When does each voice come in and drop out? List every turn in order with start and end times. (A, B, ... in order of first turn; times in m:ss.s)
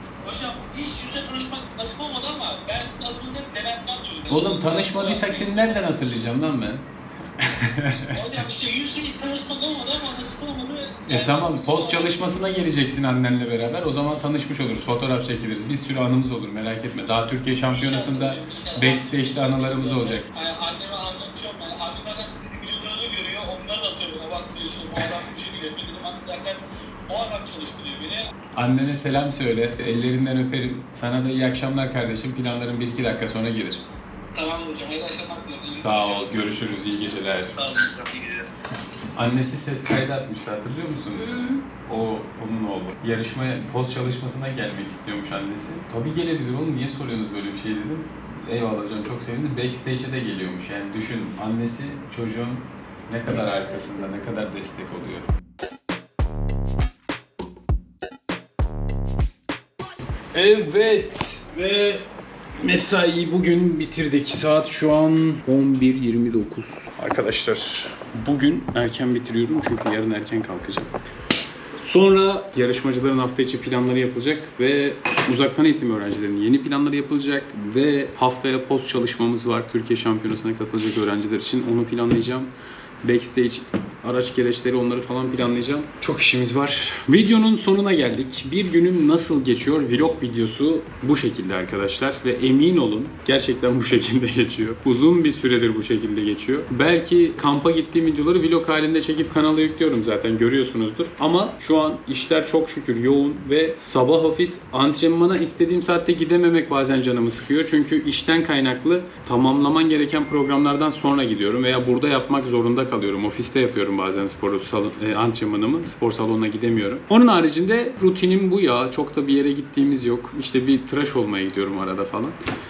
0:00.2-0:06.1 A
0:04.3-0:06.9 B
0:07.4-0:08.3 B
0:08.1-0:12.2 A
0:11.1-0:20.3 B
0:17.6-0:28.3 A
0:28.5-0:33.8 B
0:34.3-0:36.4 A
0:35.7-0:37.5 B
0:37.4-0:38.6 A
0:39.1-0:55.3 B
1:00.3-1:02.0 B
1:02.6-1:10.9 B
1:11.8-1:22.5 B
1:23.0-2:02.4 B